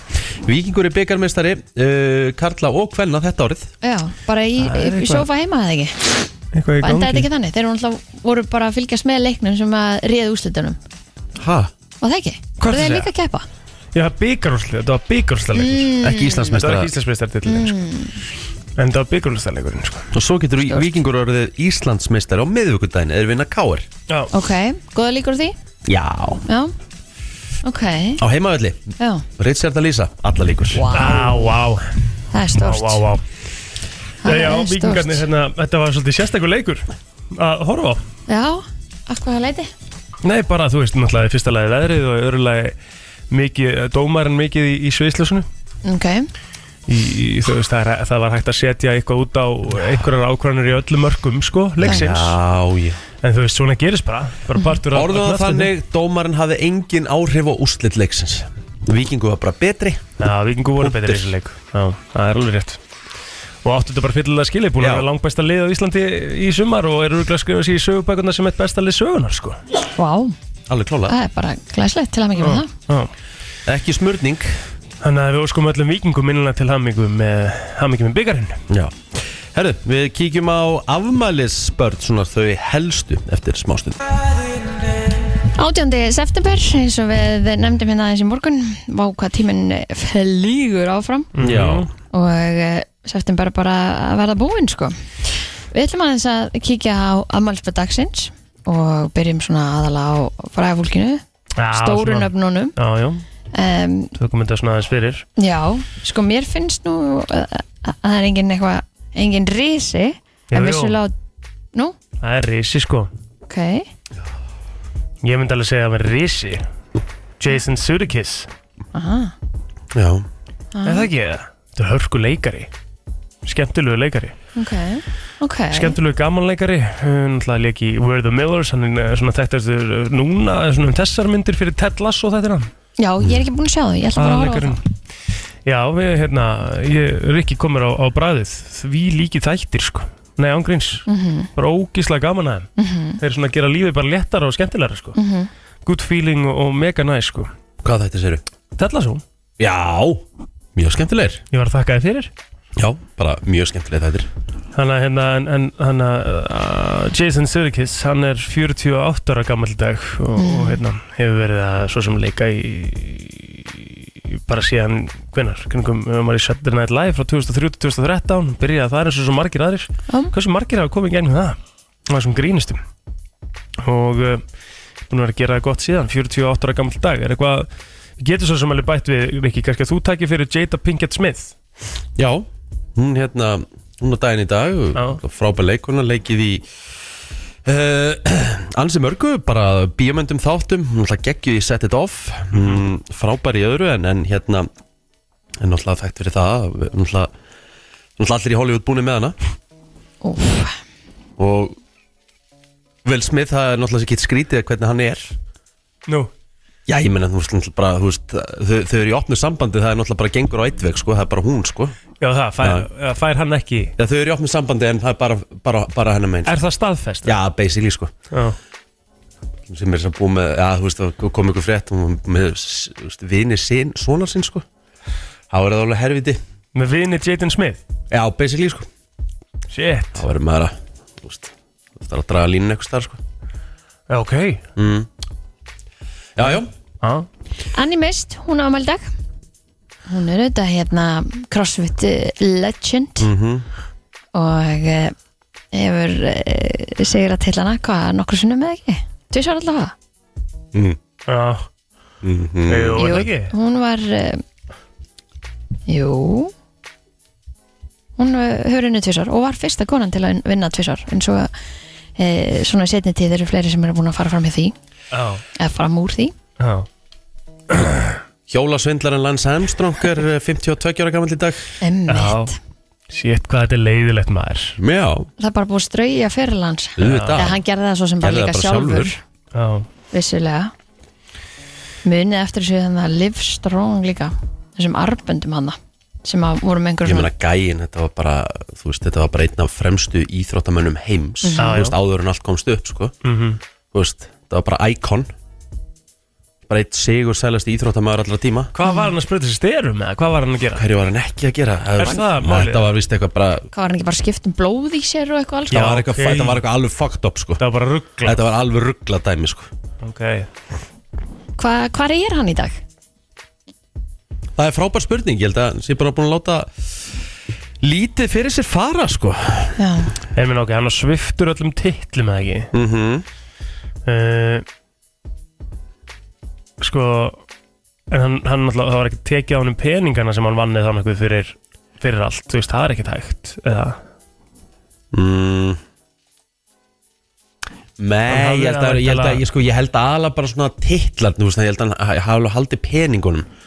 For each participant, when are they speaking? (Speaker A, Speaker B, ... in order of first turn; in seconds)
Speaker A: 0.4-3.7, 11.4-11.7, 16.0-16.9, 20.1-23.9, 25.9-26.4, 28.2-30.9, 51.8-53.0, 54.9-60.0, 60.8-61.3, 64.8-65.1, 70.7-71.2, 73.7-74.6, 78.7-84.0, 91.4-91.9, 119.9-120.3, 147.8-148.4, 149.6-150.2, 150.8-151.4, 152.8-154.3, 182.2-186.7, 187.7-194.7, 195.6-197.3, 198.2-199.4, 201.4-201.8, 203.1-205.4, 206.9-211.9, 212.6-212.9, 214.0-216.6, 217.2-218.1, 219.7-224.7, 225.5-226.4, 228.1-228.9, 230.2-233.2, 234.8-235.1, 236.4-236.7, 243.2-243.7, 250.7-251.0, 252.2-253.2, 268.5-271.7, 274.8-275.3, 277.0-277.6, 278.2-279.1, 287.1-293.1, 293.9-295.3, 296.7-298.7, 300.8-303.7, 305.7-307.6, 308.2-309.7, 314.6-316.7, 317.8-319.8, 322.7-323.3, 335.1-335.8, 338.0-343.5
Speaker B: 3.8-6.0, 6.8-10.8, 12.0-13.5, 15.6-16.5, 17.5-18.2, 24.3-25.6, 26.5-26.7, 27.6-28.2, 29.0-29.3, 30.7-31.5, 32.3-33.0, 34.2-35.2, 38.3-39.7, 45.8-46.3, 70.0-70.3, 71.1-72.7, 85.5-91.3, 92.1-95.0, 95.7-102.7, 103.5-104.2, 105.4-111.1, 113.5-113.9, 118.9-119.3, 120.7-121.1, 124.6-126.0, 133.0-134.8, 141.1-141.5, 142.8-143.2, 145.2-145.5, 160.4-160.8, 200.2-200.8, 237.7-239.1, 240.1-243.3, 244.3-245.2, 245.7-249.9, 253.0-254.4, 255.9-256.5, 258.2-261.5, 262.2-264.7, 265.6-266.3, 271.8-272.6, 275.4-279.2, 280.1-280.7, 282.1-287.3, 291.4-291.8, 303.7-305.9, 311.6-312.8, 319.8-320.1
Speaker C: 4.6-5.3, 6.5-7.3, 12.6-13.1, 13.9-17.8, 18.8-20.1, 30.9-31.9, 32.5-33.2, 34.2-38.0, 40.2-42.8, 43.3-45.5, 46.9-52.4, 53.2-55.7, 60.2-62.8, 63.6-69.6, 72.4-73.1, 75.0-78.6, 91.4-91.9, 101.6-103.2, 104.2-105.3, 110.5-111.0, 112.2-113.1, 115.2-116.7, 117.4-118.5, 120.8-122.7, 123.4-124.3, 125.7-132.7, 134.2-134.8, 135.7-145.2, 145.8-147.5, 148.8-149.2, 151.5-152.3, 154.8-172.8, 173.8-174.4, 175.1-177.7, 178.2-181.5, 192.6-192.8, 212.2-213.9, 216.5-217.4, 226.8-227.8, 229.7-230.2, 234.1-234.6, 236.4-237.3, 251.3-251.7, 252.7-253.5, 265.1-265.4, 266.6-266.9, 267.7-268.2, 272.1-272.5, 273.1-274.8, 277.0-277.4, 279.5-279.9, 291.6-292.0, 293.2-293.6, 298.7-300.9, 302.0-302.9, 305.7-306.6, 307.6-308.4, 310.0-310.5, 320.4-322.7, 324.1-324.6, 326.8-327.4, 328.1-334.0, 338.3-339.4